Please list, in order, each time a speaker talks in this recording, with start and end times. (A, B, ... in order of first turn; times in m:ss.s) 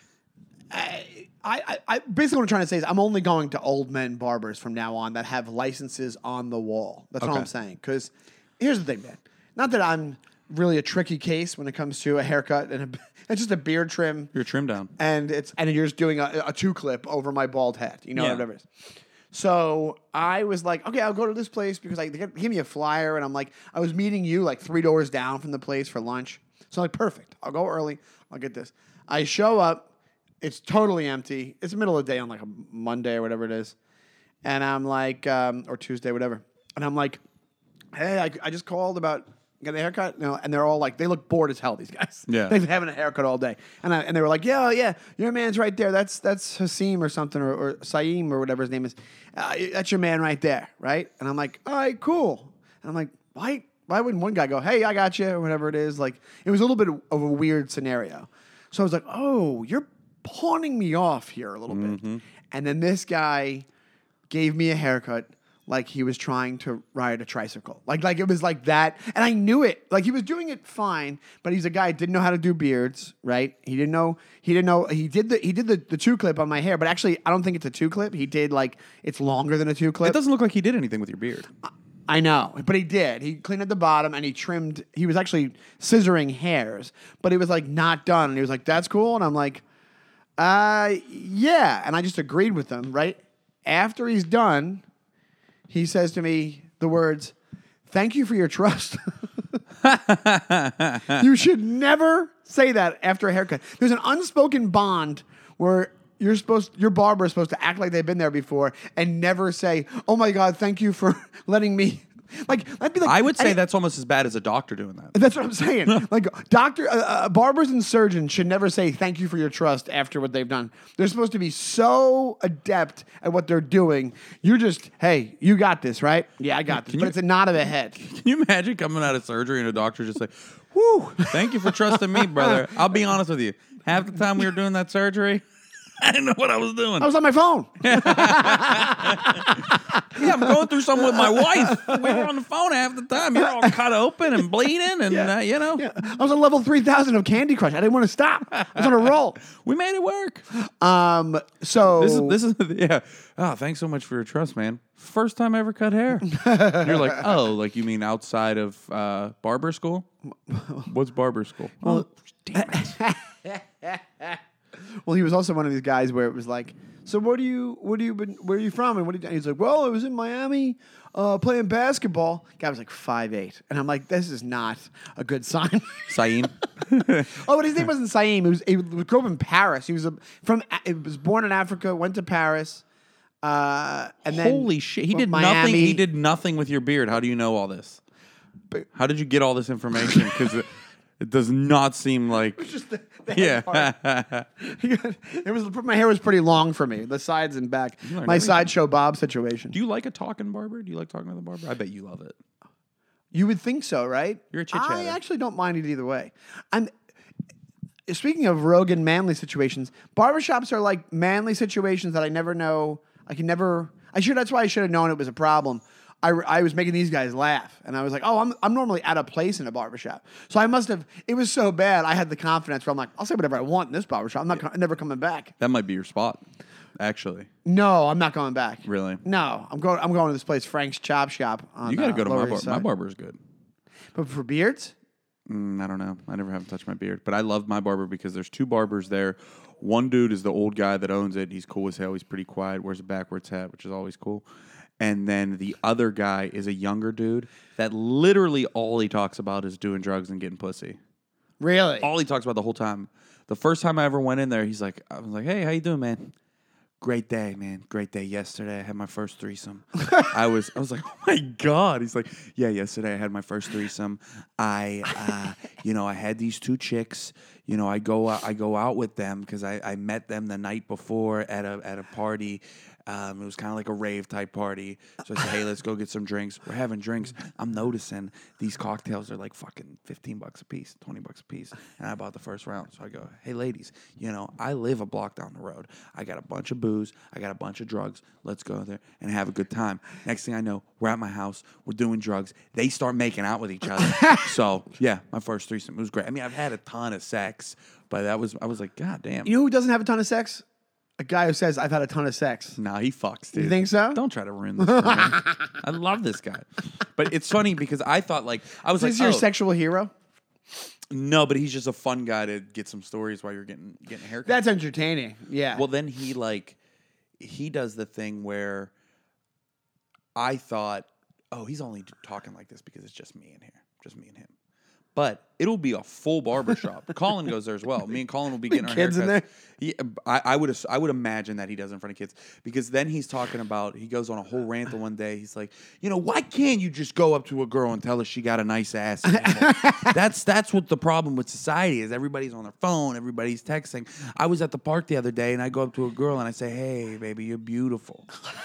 0:00.7-0:14.3 A
0:07.2-0:07.5 B
0:14.3-0:14.9 B
0:15.0-0:18.7 A
0:18.2-0:18.4 B
0:19.3-0:29.8 A
0:30.4-0:33.8 A
0:34.4-0:37.2 A
0:37.9-1:03.7 A
0:42.3-0:42.6 B
1:01.7-1:02.2 B
1:04.3-1:20.2 A
1:20.0-1:21.5 B
1:22.1-1:29.6 A
1:30.4-1:34.8 A
1:35.7-1:37.4 A
1:37.9-1:39.6 A
1:39.8-1:41.2 B
1:41.1-1:53.6 A
1:53.0-1:55.2 B
1:55.1-2:08.0 A
2:06.7-2:07.2 B
2:08.0-2:15.4 B
2:11.2-2:12.5 A
2:16.0-2:17.1 B
2:17.0-2:22.2 A
2:17.8-2:25.8 B
2:23.4-2:23.7 A
2:25.1-2:29.4 A
2:28.8-2:30.4 B
2:30.5-2:32.4 A
2:31.9-2:40.1 B
2:36.3-2:37.3 A
2:40.5-2:40.9 A
2:40.9-2:43.0 B
2:41.8-2:44.4 A
2:45.0-2:56.4 A
2:56.1-2:57.4 B
2:57.0-3:02.8 A
3:03.4-3:06.0 A
3:04.3-3:08.0 B
3:08.9-3:10.7 B
3:11.2-3:12.6 B
3:12.6-3:13.9 A
3:13.3-3:14.5 B
3:14.6-3:19.8 A
3:18.0-3:18.7 B
3:19.7-3:22.4 B
3:23.3-3:26.9 A
3:24.5-3:25.2 B
3:28.1-3:45.5 A
3:45.6-3:46.4 B
3:47.0-3:47.5 B
3:47.6-3:52.9 A
3:48.8-3:49.2 B
3:51.8-3:53.4 B
3:54.2-3:54.9 A
3:55.5-4:04.4 B
4:05.0-4:11.0 B
4:11.6-4:12.1 A
4:12.0-4:16.3 B
4:17.0-4:59.5 B
4:54.0-4:54.5 A
4:59.4-5:00.6 A
5:01.2-5:02.8 A
5:02.8-5:09.5 B
5:03.5-5:04.2 A
5:04.8-5:05.7 A
5:09.0-5:10.1 A
5:11.1-5:14.6 B
5:14.5-5:15.8 A
5:15.7-5:16.8 B
5:17.4-5:18.9 B
5:20.4-5:24.5 B
5:25.2-5:48.3 B
5:28.7-5:29.4 A
5:39.3-5:40.2 A